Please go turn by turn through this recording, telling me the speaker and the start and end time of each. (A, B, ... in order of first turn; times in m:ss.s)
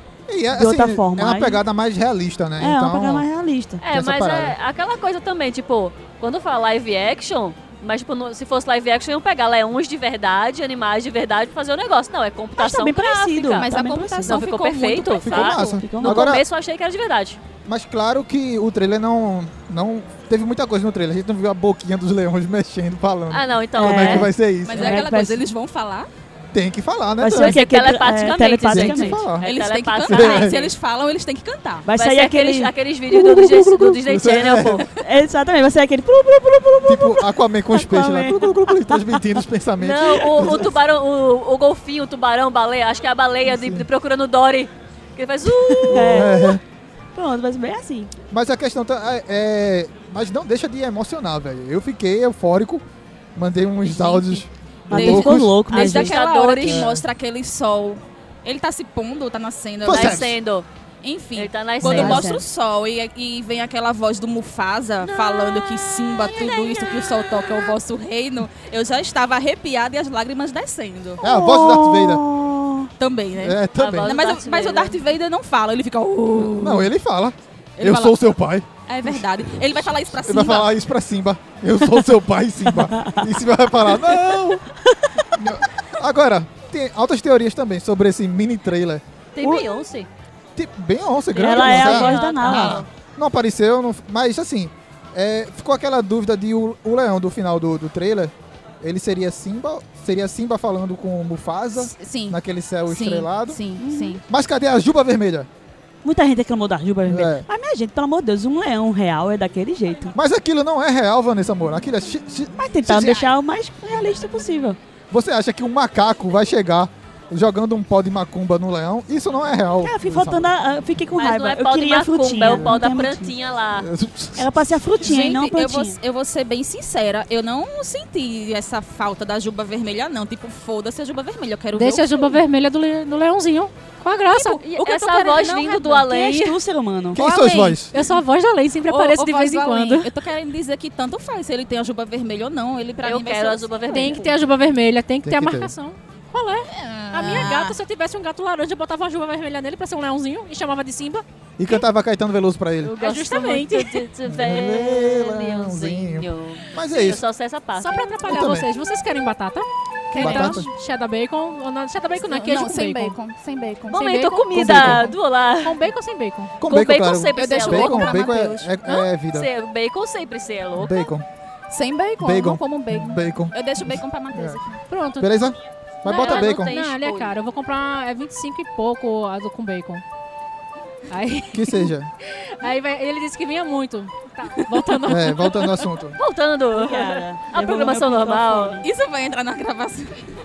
0:00.3-0:03.2 A
0:00.5-0:01.6 B
0:02.6-0:03.8 B
0:03.8-0:17.4 C
0:03.9-0:04.6 A
0:12.6-0:14.4 B
0:13.6-0:15.8 D
0:15.2-0:16.4 A
0:15.8-0:16.2 B
0:17.7-0:25.0 A
0:23.3-0:24.3 C
0:23.8-0:25.5 B
0:24.7-0:26.1 D
0:26.5-0:27.6 A
0:27.2-0:29.2 B
0:27.3-0:30.7 C
0:28.7-0:29.5 A
0:29.4-0:31.9 D
0:30.0-0:30.7 A
0:31.8-0:34.0 B
0:32.0-0:34.9 C
0:33.9-0:34.9 A
0:34.9-0:39.4 B
0:36.9-0:40.7 A
0:39.8-0:46.4 C
0:40.2-0:40.7 B
0:43.4-0:43.9 A
0:45.7-0:46.6 B
0:45.9-0:46.6 A
0:47.2-0:48.1 B
0:48.3-0:52.8 A
0:53.4-0:55.6 A
0:53.8-1:00.4 D
0:54.9-0:56.2 B
0:55.7-0:56.9 C
0:56.6-0:57.1 A
0:59.8-1:00.4 A
0:59.9-1:00.7 C
1:01.0-1:11.2 D
1:01.4-1:02.3 C
1:01.8-1:02.4 B
1:05.0-1:07.7 C
1:11.2-1:12.9 B
1:11.2-1:12.2 A
1:13.0-1:16.9 D
1:13.4-1:14.2 A
1:13.8-1:15.0 C
1:16.4-1:24.6 A
1:17.8-1:18.2 D
1:18.9-1:20.7 D
1:22.7-1:23.3 B
1:24.9-1:25.4 B
1:25.4-1:29.8 A
1:29.4-1:30.1 C
1:30.6-1:43.6 A
1:31.4-1:32.8 B
1:31.4-1:32.9 C
1:41.8-1:44.2 D
1:43.8-1:44.2 B
1:44.3-1:45.5 A
1:46.0-1:50.2 B
1:47.1-1:47.5 A
1:50.1-1:53.3 A
1:52.6-1:54.8 B
1:55.1-2:00.5 A
1:59.8-2:03.3 B
2:01.2-2:03.9 C
2:02.5-2:02.8 A
2:03.8-2:04.5 A
2:04.4-2:06.0 B
2:05.0-2:12.4 D
2:11.7-2:14.6 E
2:14.3-2:16.1 D
2:14.6-2:16.6 C
2:16.1-2:17.2 B
2:17.1-2:17.9 A
2:17.2-2:18.2 D
2:17.9-2:20.1 E
2:18.9-2:24.4 D
2:23.0-2:24.3 C
2:23.9-2:31.2 E
2:25.2-2:25.7 A
2:26.7-2:27.8 D
2:31.6-2:32.9 A
2:32.8-2:38.1 C
2:33.0-2:34.1 E
2:34.3-2:37.2 A
2:37.7-2:43.2 E
2:38.2-2:38.7 A
2:40.2-2:40.5 C
2:40.2-2:40.7 A
2:42.2-2:44.0 D
2:43.9-2:45.8 C
2:43.9-2:46.6 E
2:44.5-2:45.1 A
2:46.6-2:49.5 A
2:46.6-2:48.3 C
2:47.4-2:48.7 D
2:48.8-2:51.1 C
2:50.8-2:51.3 A
2:51.7-2:54.8 D
2:52.2-2:54.6 A
2:54.9-2:55.3 E
2:55.2-2:56.7 A
2:56.0-2:57.3 C
2:56.1-3:00.0 E
3:01.1-3:01.9 E
3:01.5-3:02.1 A
3:02.6-3:05.9 E
3:05.1-3:06.2 A
3:06.2-3:08.8 C
3:06.7-3:08.8 B
3:08.8-3:10.2 D